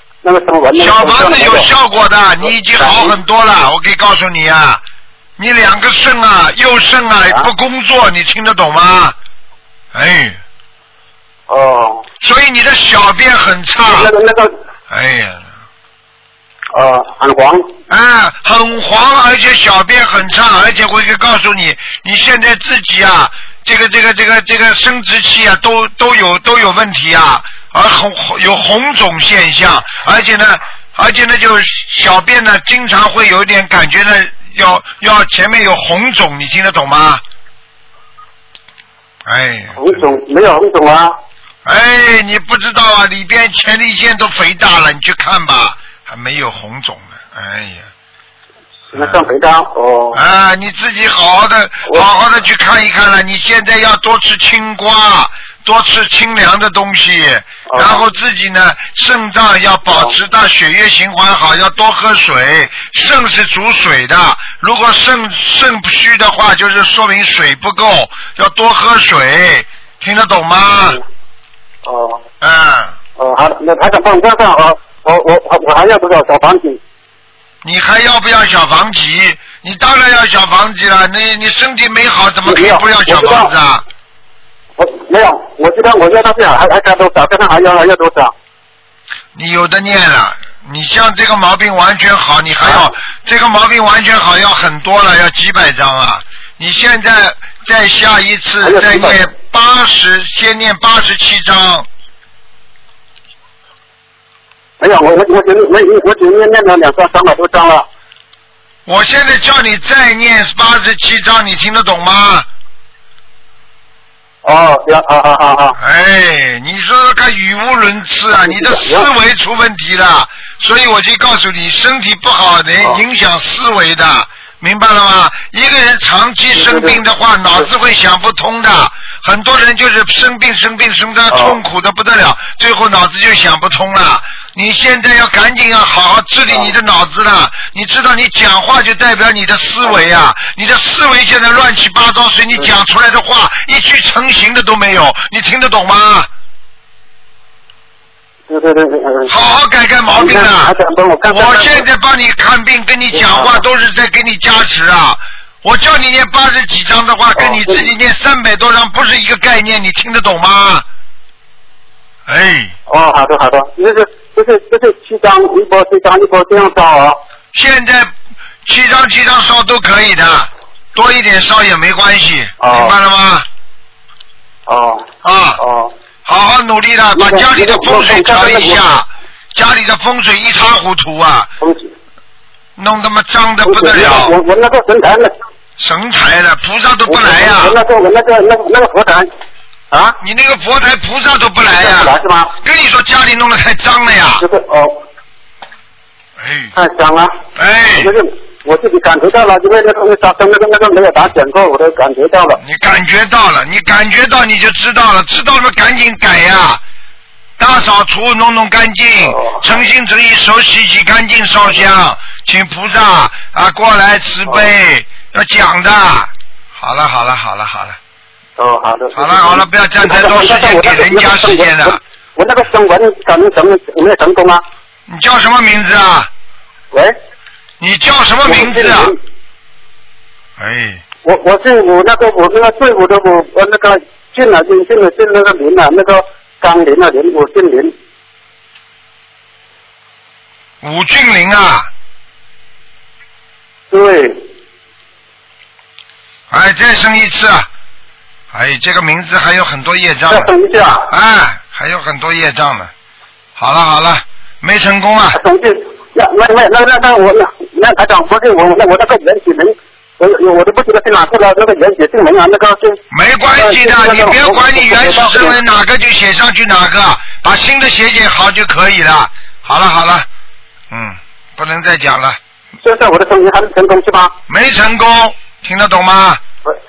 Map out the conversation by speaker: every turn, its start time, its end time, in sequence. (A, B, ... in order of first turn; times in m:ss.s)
0:00.2-0:01.7 A
0:00.7-0:04.8 B
0:02.4-0:03.1 A
0:05.4-0:09.2 B
0:09.9-0:10.4 B
0:11.5-0:12.0 A
0:12.2-0:14.1 B
0:13.9-0:14.5 A
0:14.9-0:15.5 B
0:16.7-0:17.6 A
0:17.9-0:37.2 B
0:39.2-0:40.1 B
0:39.8-0:41.2 A
0:41.6-0:47.9 B
0:48.9-0:49.3 B
0:48.9-0:50.2 A
0:50.1-1:11.0 B
0:57.7-0:58.0 A
1:11.8-1:12.2 A
1:12.4-1:13.0 B
1:13.2-1:16.8 A
1:17.6-1:23.8 B
1:22.5-1:23.5 A
1:24.8-1:28.3 A
1:29.3-1:41.9 B
1:32.6-1:32.9 A
1:38.6-1:39.2 A
1:44.8-1:47.9 A
1:48.8-1:52.5 B
1:54.4-1:55.8 A
1:55.8-2:26.3 B
1:58.3-1:59.1 A
2:06.5-2:07.0 A
2:11.3-2:11.6 A
2:28.5-2:29.3 A
2:29.3-2:30.7 B
2:30.1-2:31.8 A
2:31.3-2:40.8 B
2:33.1-2:33.6 A
2:37.4-2:37.9 A
2:42.3-2:42.7 B
2:42.9-2:47.2 A
2:47.5-2:48.1 B
2:48.6-2:53.4 B
2:52.6-2:52.9 A
2:54.7-2:55.9 A
2:55.2-2:55.6 B
2:56.2-3:01.5 B
2:57.1-2:58.8 A
3:01.6-3:01.9 A
3:02.8-3:04.3 B
3:03.6-3:05.3 A
3:05.8-3:07.8 B
3:07.1-3:09.3 A
3:09.9-3:10.2 A
3:10.2-3:14.4 B
3:11.8-3:12.5 A
3:14.4-3:15.0 A
3:16.4-3:16.7 B
3:16.7-3:17.4 A
3:17.5-3:18.1 B
3:17.9-3:22.6 A
3:22.6-3:26.8 B
3:27.6-3:38.0 B
3:29.2-3:29.7 A
3:38.6-3:44.6 A
3:39.1-3:42.0 B
3:45.1-3:46.3 B
3:47.8-3:49.2 B
3:48.4-3:49.2 A
3:50.6-3:51.0 B
3:51.2-3:57.9 A
4:00.8-4:01.9 B
4:03.9-4:04.4 A
4:06.5-4:07.7 B
4:08.5-4:10.5 B
4:10.3-4:11.1 A
4:11.0-4:12.9 B
4:13.6-4:15.4 B
4:15.3-4:23.0 A
4:23.1-4:30.3 B
4:23.6-4:25.6 A
4:30.9-4:32.4 B
4:32.8-4:34.3 A
4:34.5-4:36.4 B